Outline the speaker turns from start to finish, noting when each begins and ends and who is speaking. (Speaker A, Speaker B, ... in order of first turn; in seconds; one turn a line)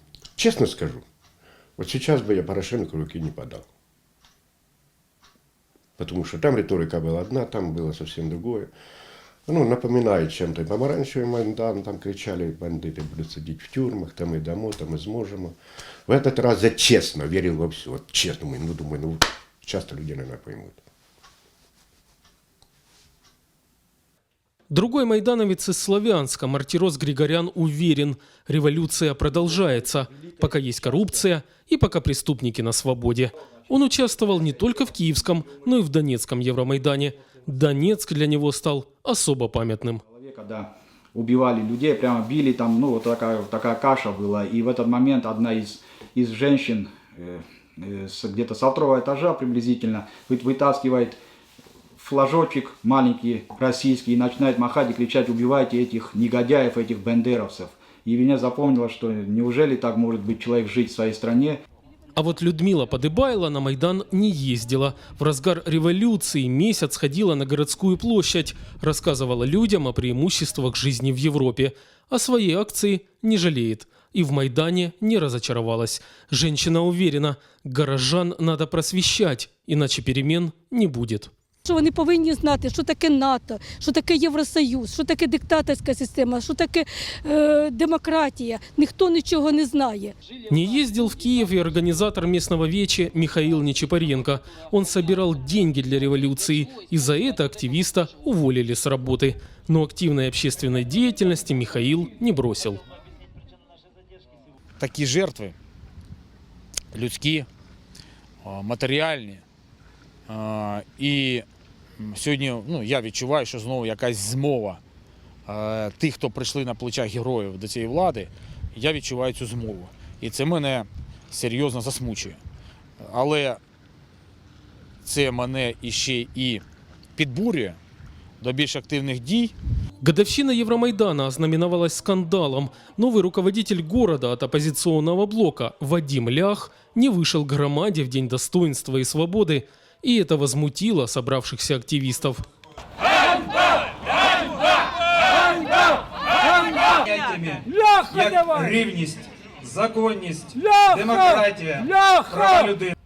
Speaker A: 0.4-1.0
Speaker A: 1.8-3.6
Speaker A: 6.0-8.7
Speaker A: 9.5-15.6
Speaker A: 16.1-20.8
Speaker B: 24.7-40.0
Speaker C: 40.1-51.2
Speaker C: 52.0-61.6
Speaker B: 62.1-81.3
Speaker D: 81.6-90.1
Speaker B: 90.5-102.8
Speaker E: 104.8-105.5
Speaker E: 106.9-107.5
Speaker E: 108.4-109.4
Speaker E: 110.3-111.5
Speaker E: 112.0-114.8
Speaker E: 115.5-122.4
Speaker E: 123.0-123.6
Speaker E: 125.0-126.6
Speaker E: 127.2-127.8
Speaker E: 128.4-129.5
Speaker B: 130.0-142.4
Speaker F: 146.7-152.9